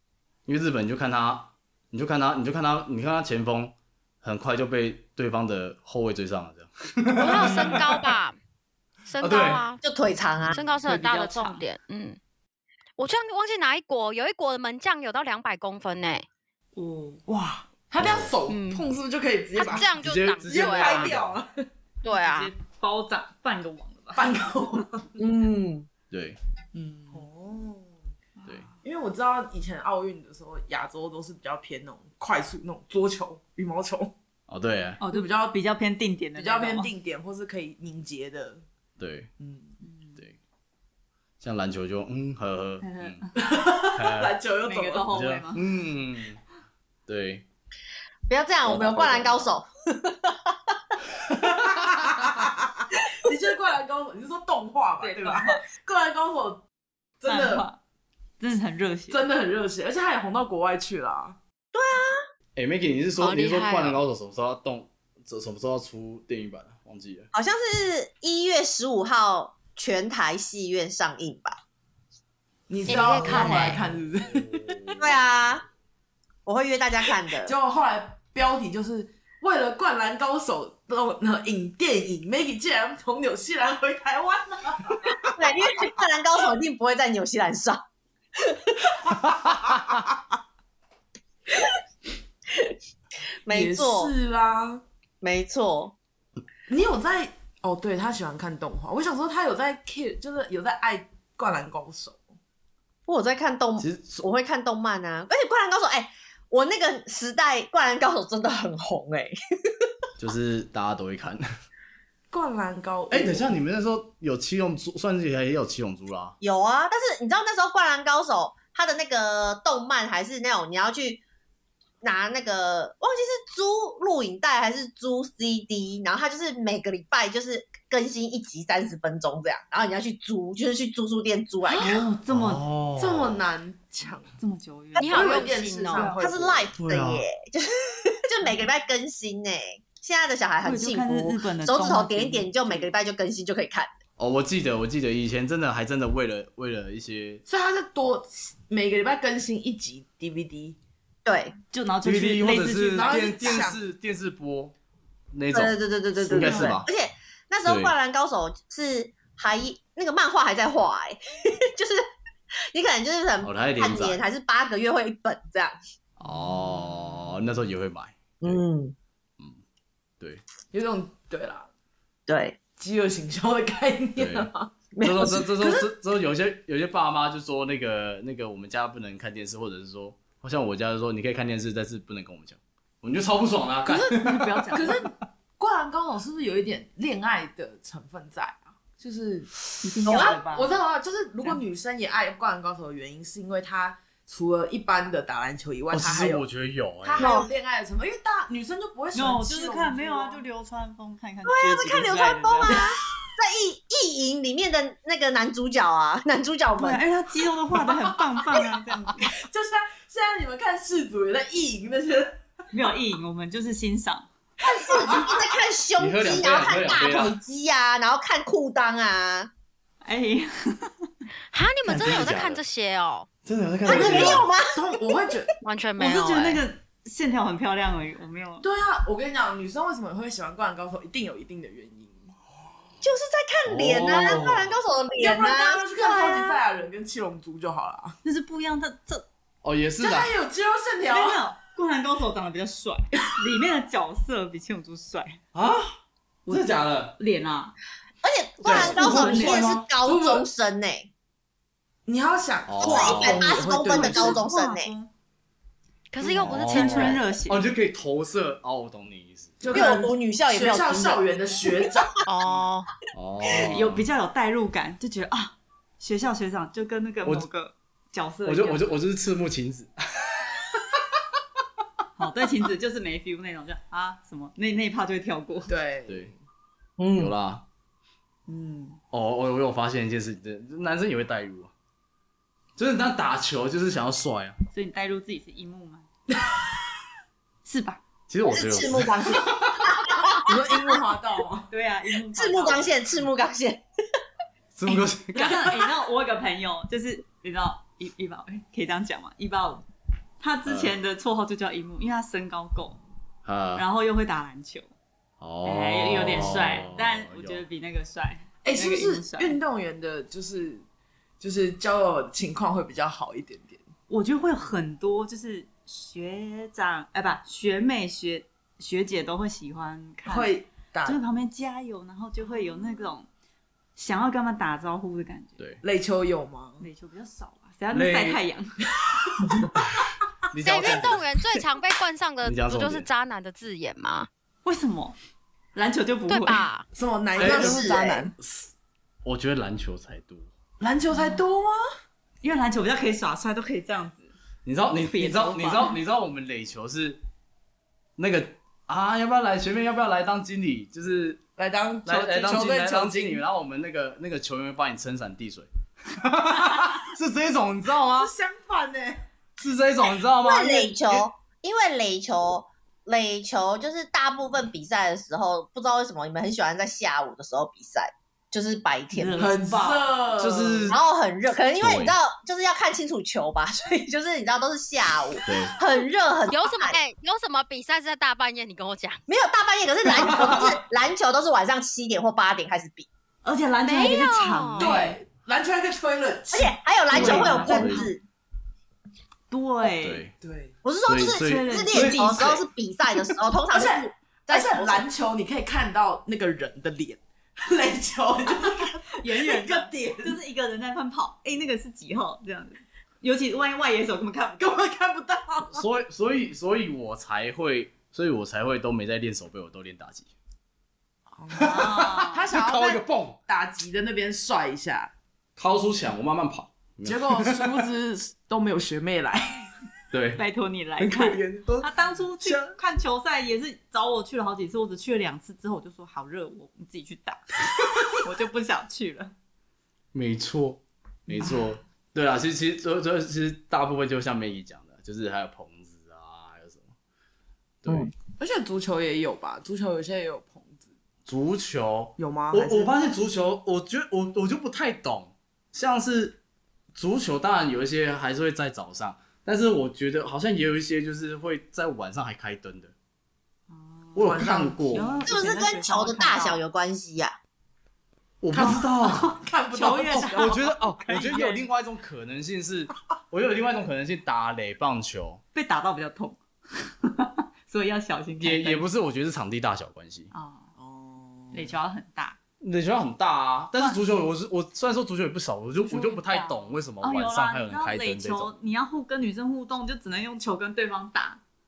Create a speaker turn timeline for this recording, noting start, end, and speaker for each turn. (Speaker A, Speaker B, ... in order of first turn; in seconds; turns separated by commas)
Speaker A: 0.5-8.0, Speaker B: 7.1-8.4, Speaker B: 9.1-9.8, Speaker A: 9.2-9.6, Speaker C: 9.8-10.6, Speaker B: 10.6-12.2, Speaker D: 10.8-11.6, Speaker B: 13.0-16.2, Speaker D: 16.7-17.2, Speaker E: 17.3-19.9, Speaker A: 18.0-18.3, Speaker B: 18.5-18.8, Speaker B: 19.6-21.1, Speaker A: 20.0-21.4, Speaker E: 20.5-21.6, Speaker B: 22.0-22.5, Speaker D: 22.1-24.4, Speaker E: 24.1-25.1, Speaker C: 25.2-25.9, Speaker A: 26.1-26.4, Speaker D: 26.7-27.2, Speaker E: 27.1-27.9, Speaker D: 28.4-28.8, Speaker E: 28.8-34.1, Speaker A: 34.5-35.0, Speaker D: 35.0-36.9, Speaker E: 35.1-35.5, Speaker E: 36.4-38.6, Speaker A: 39.0-39.3, Speaker E: 39.4-39.7, Speaker D: 39.8-40.3, Speaker A: 41.4-43.2, Speaker D: 42.8-43.4, Speaker E: 43.4-45.1, Speaker A: 43.9-44.4, Speaker D: 44.6-45.6, Speaker A: 45.1-46.4, Speaker A: 47.1-47.4, Speaker C: 48.3-50.7, Speaker A: 48.6-49.5, Speaker E: 51.4-56.6, Speaker D: 55.0-55.6, Speaker E: 57.2-57.6, Speaker D: 57.3-57.8, Speaker D: 58.4-59.3, Speaker E: 59.1-61.4, Speaker C: 61.7-62.2, Speaker A: 62.5-67.3, Speaker B: 63.2-64.0, Speaker C: 67.3-71.6, Speaker E: 72.7-74.8, Speaker B: 72.9-73.8, Speaker D: 73.3-73.7, Speaker A: 74.2-75.1, Speaker C: 75.0-75.6, Speaker C: 76.5-77.5, Speaker E: 77.4-85.5, Speaker C: 85.3-87.8, Speaker C: 93.4-94.1, Speaker E: 93.5-94.8, Speaker C: 95.2-95.9, Speaker E: 96.7-102.2, Speaker C: 103.1-109.3, Speaker A: 103.8-104.2, Speaker A: 110.2-111.4, Speaker E: 112.3-113.5, Speaker A: 113.1-116.4, Speaker C: 116.4-121.2, Speaker C: 122.0-132.0, Speaker E: 131.7-132.1, Speaker D: 131.7-132.6, Speaker A: 132.3-133.4, Speaker E: 132.9-134.3, Speaker D: 134.4-136.2, Speaker B: 135.0-136.1, Speaker E: 135.0-136.7, Speaker C: 136.2-143.9, Speaker A: 136.8-137.2, Speaker D: 140.6-142.9, Speaker A: 144.2-147.4, Speaker E: 147.4-150.8, Speaker C: 151.2-151.6, Speaker D: 151.7-153.6, Speaker A: 152.0-154.7, Speaker E: 153.0-153.8, Speaker A: 155.3-156.9, Speaker C: 155.5-162.0, Speaker E: 156.3-156.8, Speaker A: 157.6-157.9, Speaker C: 162.7-165.8, Speaker A: 163.4-164.2, Speaker A: 166.2-168.6, Speaker C: 168.4-168.9, Speaker E: 170.7-171.7, Speaker C: 172.3-172.6, Speaker E: 172.8-174.7, Speaker A: 174.2-174.5, Speaker C: 174.9-175.8, Speaker A: 175.0-184.9, Speaker E: 183.9-196.4, Speaker D: 184.1-185.0, Speaker D: 189.8-190.8, Speaker C: 190.1-190.4, Speaker A: 195.9-197.4, Speaker E: 197.0-200.4, Speaker C: 197.2-197.5, Speaker D: 199.1-202.8, Speaker C: 201.4-207.0, Speaker D: 206.8-209.3, Speaker E: 207.7-208.6, Speaker E: 209.2-212.4, Speaker D: 212.7-214.3, Speaker E: 214.6-215.5, Speaker C: 214.7-219.5, Speaker A: 216.0-217.3, Speaker D: 220.0-221.1, Speaker B: 221.5-223.3, Speaker A: 221.9-222.6, Speaker A: 223.4-224.4, Speaker C: 223.8-224.7, Speaker E: 223.9-225.5, Speaker B: 225.6-226.6, Speaker D: 226.0-228.6, Speaker E: 228.6-232.3, Speaker C: 233.0-236.6, Speaker A: 233.7-234.7, Speaker E: 235.2-238.2, Speaker D: 238.2-239.2, Speaker A: 239.6-240.3, Speaker E: 240.0-241.4, Speaker D: 241.0-245.4, Speaker A: 245.5-245.9, Speaker D: 246.4-247.7, Speaker A: 246.5-247.2, Speaker C: 248.2-251.1, Speaker A: 248.6-249.8, Speaker E: 248.7-250.4, Speaker D: 248.7-249.7, Speaker E: 252.1-254.4, Speaker A: 252.7-253.5, Speaker C: 252.8-254.9, Speaker D: 253.6-255.1, Speaker B: 256.1-257.2, Speaker A: 256.2-259.6, Speaker D: 256.4-257.6, Speaker E: 259.6-262.1, Speaker C: 259.7-261.2, Speaker B: 262.2-262.9, Speaker A: 263.1-264.1, Speaker D: 263.6-268.8, Speaker A: 268.4-271.0, Speaker D: 272.2-275.7, Speaker E: 275.7-276.4, Speaker C: 277.0-277.3, Speaker A: 277.1-277.6, Speaker D: 278.5-279.0, Speaker A: 279.1-281.7, Speaker A: 282.8-284.6, Speaker D: 284.7-286.1, Speaker D: 287.6-288.0, Speaker A: 288.3-289.9, Speaker C: 288.5-290.9, Speaker E: 290.4-291.7, Speaker D: 291.7-292.9, Speaker C: 292.3-293.8, Speaker A: 294.7-295.8, Speaker D: 294.9-299.9, Speaker D: 300.4-303.0, Speaker A: 300.6-300.9, Speaker A: 303.4-303.8, Speaker D: 303.7-304.9, Speaker A: 305.4-307.6, Speaker D: 305.6-309.6, Speaker E: 308.6-310.8, Speaker E: 311.4-313.8, Speaker D: 314.1-323.3, Speaker E: 320.2-321.2, Speaker D: 323.9-325.6, Speaker E: 325.8-326.9, Speaker D: 326.8-328.8, Speaker A: 327.9-328.4, Speaker E: 329.0-329.8, Speaker A: 330.5-331.2, Speaker B: 330.6-334.3, Speaker A: 332.4-333.1, Speaker D: 334.6-335.1, Speaker D: 335.7-336.7, Speaker B: 336.3-336.8, Speaker E: 336.9-338.3, Speaker C: 337.4-338.2, Speaker A: 337.4-338.7, Speaker A: 339.2-340.5, Speaker E: 340.8-341.8, Speaker D: 341.1-341.4, Speaker D: 342.4-344.3, Speaker A: 344.6-347.2, Speaker D: 345.0-346.0, Speaker A: 348.2-351.4, Speaker E: 351.6-353.4, Speaker A: 352.1-358.3, Speaker E: 358.1-359.2, Speaker A: 359.6-361.2, Speaker C: 360.4-369.5, Speaker D: 369.1-370.1, Speaker E: 369.4-370.9, Speaker A: 370.4-371.0, Speaker C: 370.9-377.0, Speaker A: 371.8-372.1, Speaker A: 375.4-375.7, Speaker B: 376.5-379.2, Speaker C: 379.3-383.1, Speaker A: 380.2-380.7, Speaker D: 383.4-385.2, Speaker B: 383.8-384.9, Speaker E: 384.8-387.9, Speaker C: 386.5-388.2, Speaker A: 387.1-388.1, Speaker D: 387.1-388.1, Speaker D: 389.5-390.3, Speaker A: 389.8-390.3, Speaker E: 390.4-390.7, Speaker C: 390.8-395.0, Speaker A: 391.1-392.6, Speaker D: 391.3-392.6, Speaker E: 393.7-400.4, Speaker D: 399.1-404.8, Speaker E: 404.6-405.8, Speaker A: 405.7-410.3, Speaker E: 411.3-415.1, Speaker A: 411.6-413.4, Speaker D: 411.6-412.4, Speaker A: 415.6-417.8, Speaker E: 417.1-419.7, Speaker A: 420.1-420.4, Speaker D: 420.3-427.4, Speaker A: 421.0-422.7, Speaker D: 428.2-429.3, Speaker A: 430.1-436.9, Speaker A: 437.8-438.1, Speaker E: 438.4-440.8, Speaker A: 441.2-446.4, Speaker E: 442.2-442.9, Speaker A: 446.9-452.9, Speaker D: 453.7-456.6, Speaker A: 454.1-455.2, Speaker E: 454.2-455.3, Speaker C: 455.2-457.3, Speaker A: 458.4-459.4, Speaker E: 458.5-460.6, Speaker D: 458.6-461.7, Speaker A: 460.1-465.4, Speaker D: 465.5-468.8, Speaker A: 468.4-470.3, Speaker D: 470.3-470.7, Speaker E: 470.8-471.7, Speaker D: 471.5-472.4, Speaker A: 472.6-478.5, Speaker D: 475.8-481.4